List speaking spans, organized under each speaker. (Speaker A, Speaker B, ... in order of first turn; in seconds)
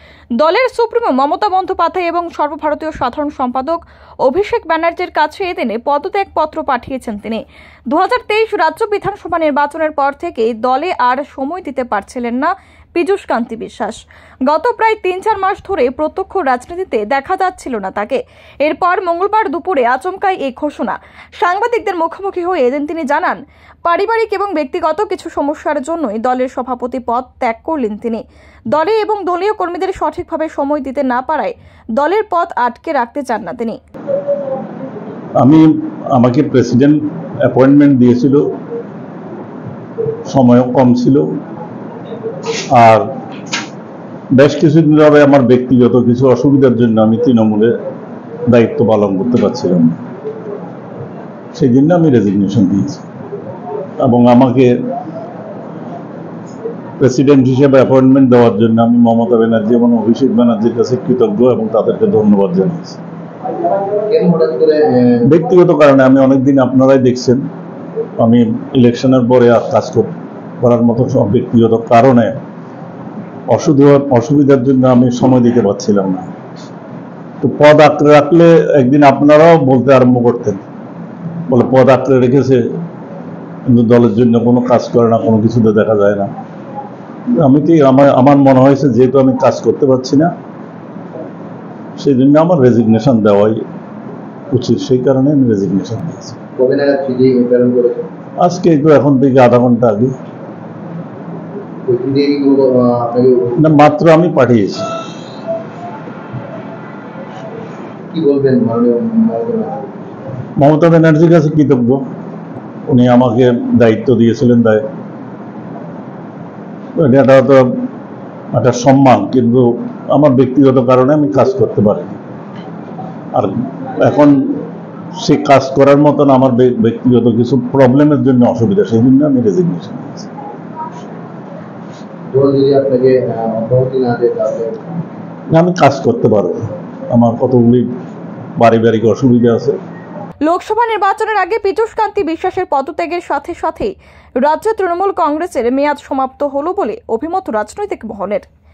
Speaker A: 0.4-33.8, 140.4-148.5
Speaker B: 35.4-38.4, 40.3-41.2, 42.7-43.0, 44.3-47.7, 48.5-50.0, 51.5-53.0, 54.0-54.7, 57.0-63.0, 65.2-67.4, 68.2-70.1, 70.6-72.4, 73.5-76.3, 77.4-80.6, 81.5-82.6, 83.7-86.3, 87.4-90.3, 92.0-93.6, 94.5-96.4, 98.4-100.2, 103.6-104.9, 110.6-112.0, 112.9-114.8, 117.0-117.8, 118.5-122.2, 123.3-124.6, 125.2-130.3, 135.5-137.9, 138.6-139.8
Speaker C: 64.1-65.2, 96.6-98.1, 101.9-103.9, 108.1-109.9, 132.3-134.9